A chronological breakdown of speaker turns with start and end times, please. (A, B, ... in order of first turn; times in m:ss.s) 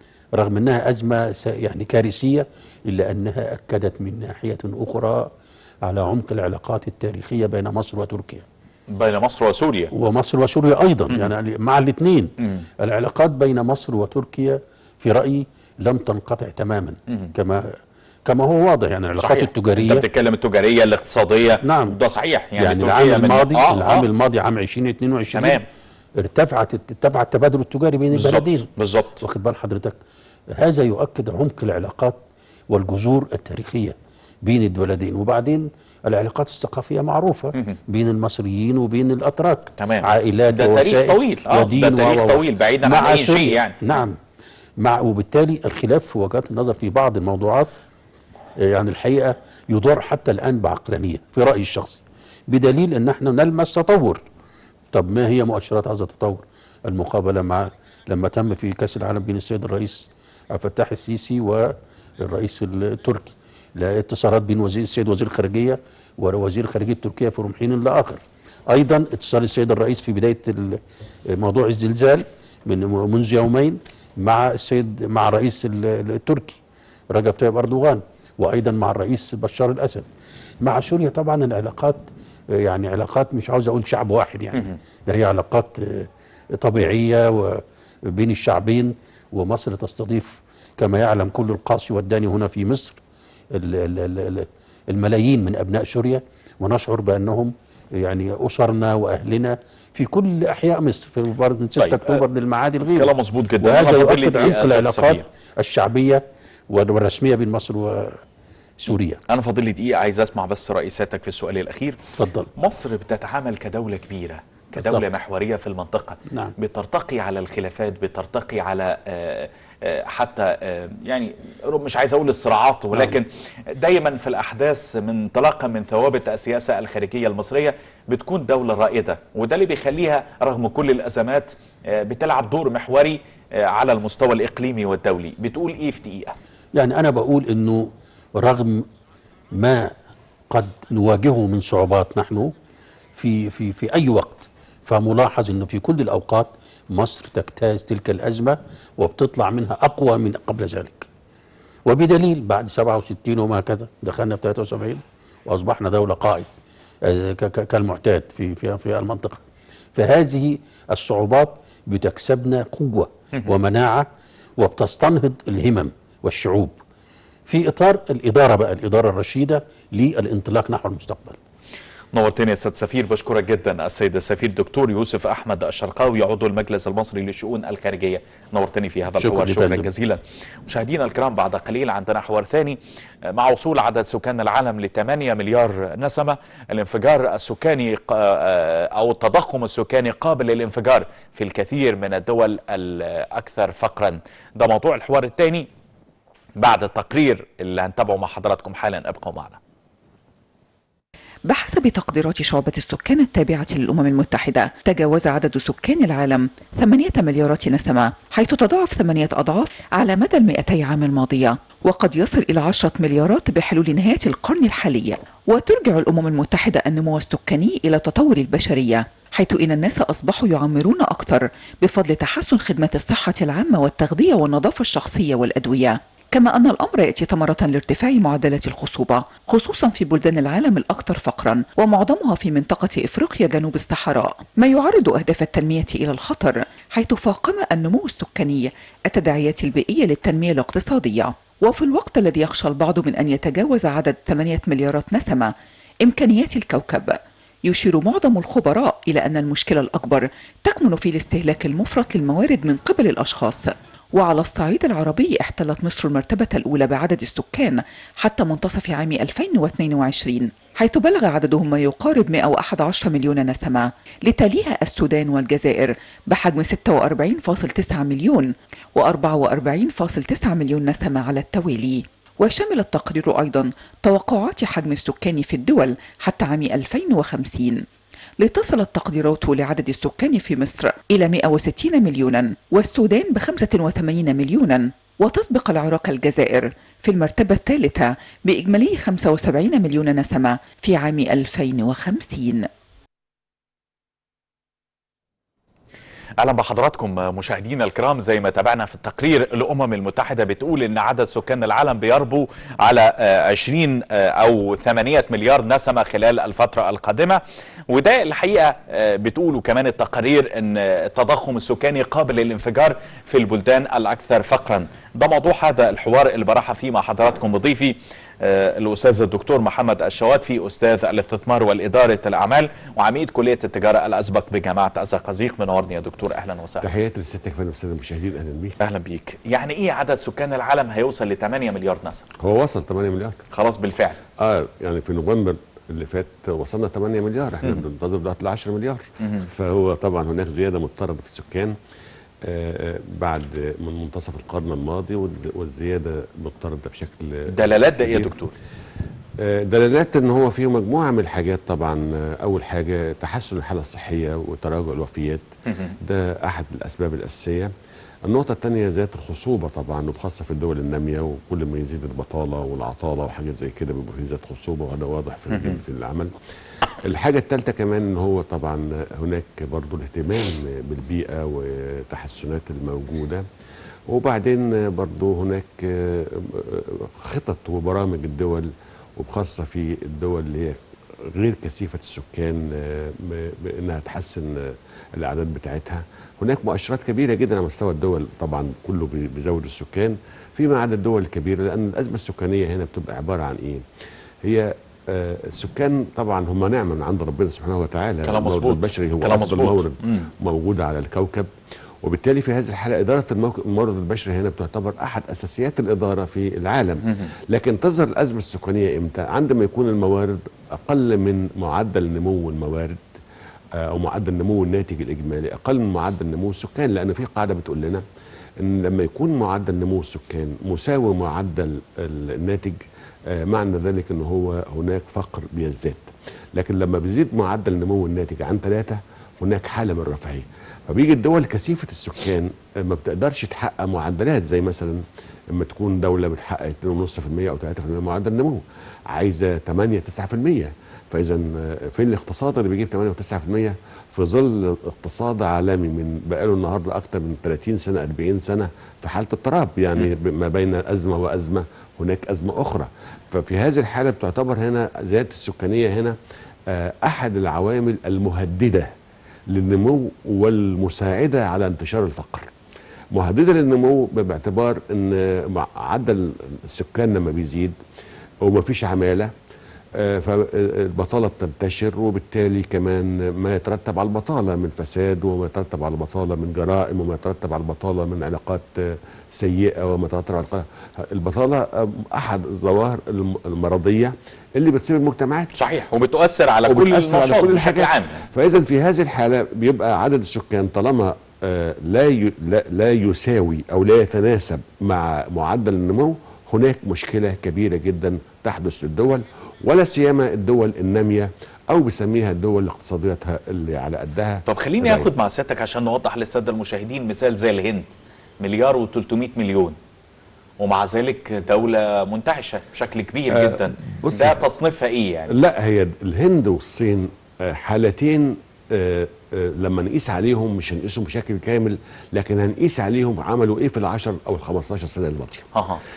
0:00.4-0:05.3 A
0:05.8-0:08.5 A
0:08.9-0:09.9 B
0:09.9-0:20.1 A
0:19.2-0:24.1 B
0:21.6-0:22.0 A
0:22.6-0:25.6 A
0:25.3-0:25.6 B
0:26.2-0:28.7 A
0:28.1-0:29.2 B
0:29.2-0:30.0 A
0:30.5-0:44.2 A
0:39.8-0:43.8 B
0:44.8-0:47.7 A
0:48.6-0:54.2 A
0:54.9-1:16.6 A
1:17.1-1:20.1 A
1:20.6-1:33.0 A
1:33.5-1:48.2 A
1:41.8-1:42.2 B
1:43.0-1:45.2 B
1:48.8-1:49.2 A
1:49.3-1:52.0 B
1:52.2-1:52.5 A
1:52.6-2:16.4 B
1:54.8-1:55.0 A
1:56.3-1:56.5 A
2:02.9-2:03.2 A
2:16.8-2:18.8 A
2:19.5-2:19.9 A
2:20.5-2:22.6 A
2:23.2-2:31.1 A
2:31.9-2:36.5 A
2:37.0-2:39.4 A
2:40.0-2:46.8 A
2:47.5-2:51.4 A
2:52.1-3:02.8 B
2:59.2-2:59.9 A
3:03.3-3:15.7 B
3:16.6-3:19.6 B
3:21.5-4:05.5 C
4:06.0-4:37.8 C
4:38.4-4:52.7 C
4:56.4-5:26.9 B
5:26.8-5:28.8 D
5:28.8-5:32.3 B
5:32.4-5:33.4 D
5:33.5-5:34.2 B
5:34.4-5:41.8 D
5:39.2-5:39.5 B
5:42.4-5:48.3 D
5:47.5-5:48.5 B
5:49.4-5:55.4 D
5:56.0-5:57.7 D
5:58.3-6:06.3 D
6:05.5-6:05.8 B
6:07.0-6:13.4 D
6:14.1-6:33.8 D
6:34.4-6:41.5 D
6:38.2-6:40.3 B
6:42.0-6:53.0 D
6:53.8-6:58.0 D
6:58.6-7:02.8 D
7:03.3-7:36.2 D
7:36.7-7:38.9 D
7:39.5-7:42.5 D
7:43.1-7:47.8 D
7:48.4-7:49.3 D
7:50.0-8:05.5 D
8:05.6-8:08.2 B
8:06.6-8:25.1 D
8:24.5-8:29.8 B
8:30.6-8:35.4 B
8:33.4-8:34.4 D
8:35.3-8:45.5 D
8:45.5-8:45.8 B